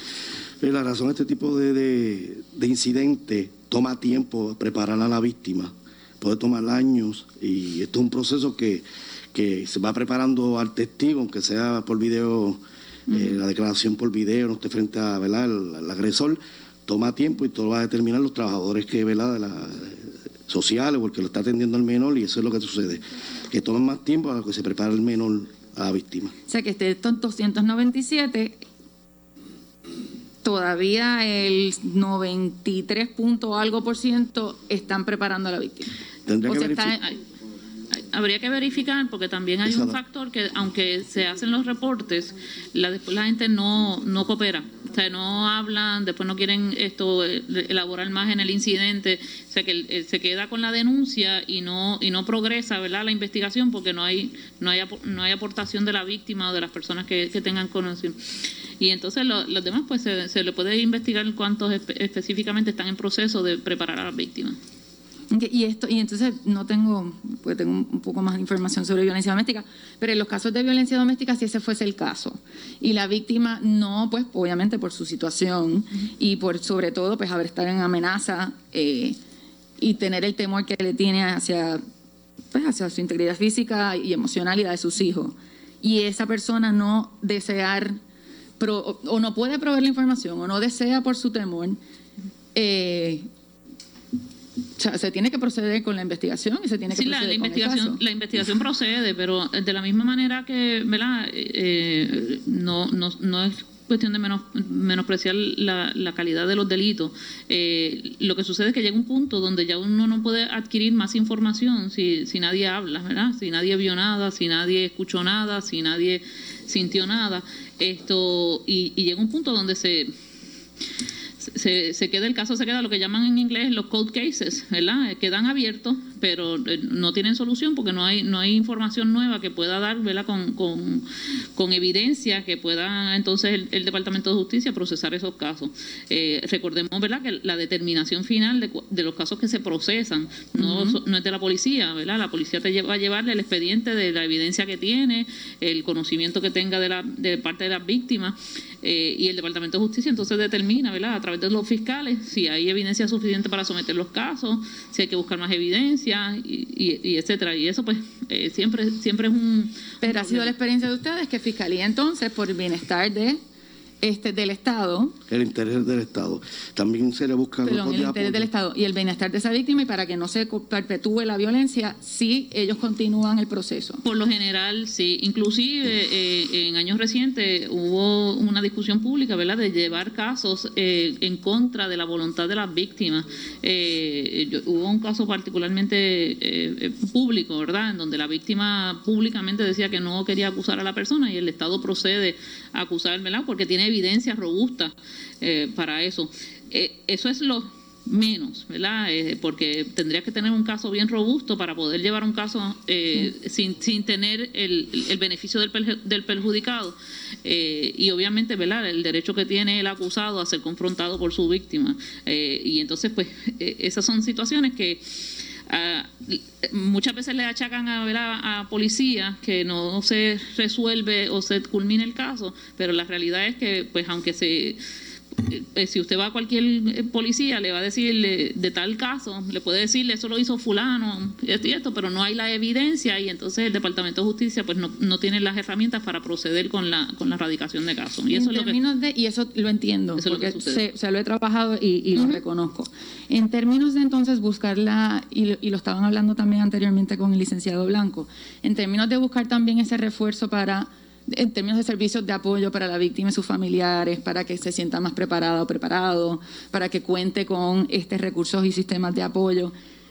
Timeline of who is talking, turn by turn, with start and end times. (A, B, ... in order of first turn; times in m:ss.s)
0:00.6-0:26.3 A
0:13.1-0:13.4 B
0:26.4-0:28.6 B
0:30.4-0:35.9 B
0:36.3-0:37.0 A
0:36.4-0:37.0 B
0:38.0-1:04.6 C
0:39.6-0:40.0 A
1:05.3-1:19.2 B
1:19.8-1:21.8 B
1:22.5-1:28.0 B
1:28.6-1:31.8 B
1:32.5-1:33.3 B
1:34.8-1:38.0 B
1:36.9-2:00.1 C
2:01.4-2:40.5 C
2:20.6-2:21.0 B
2:40.0-2:43.4 B
2:44.0-2:45.1 B
2:45.3-2:48.5 A
2:47.6-2:54.0 B
2:54.0-3:44.8 C
3:45.4-3:58.8 C
3:58.3-4:19.7 B
4:00.2-4:00.8 C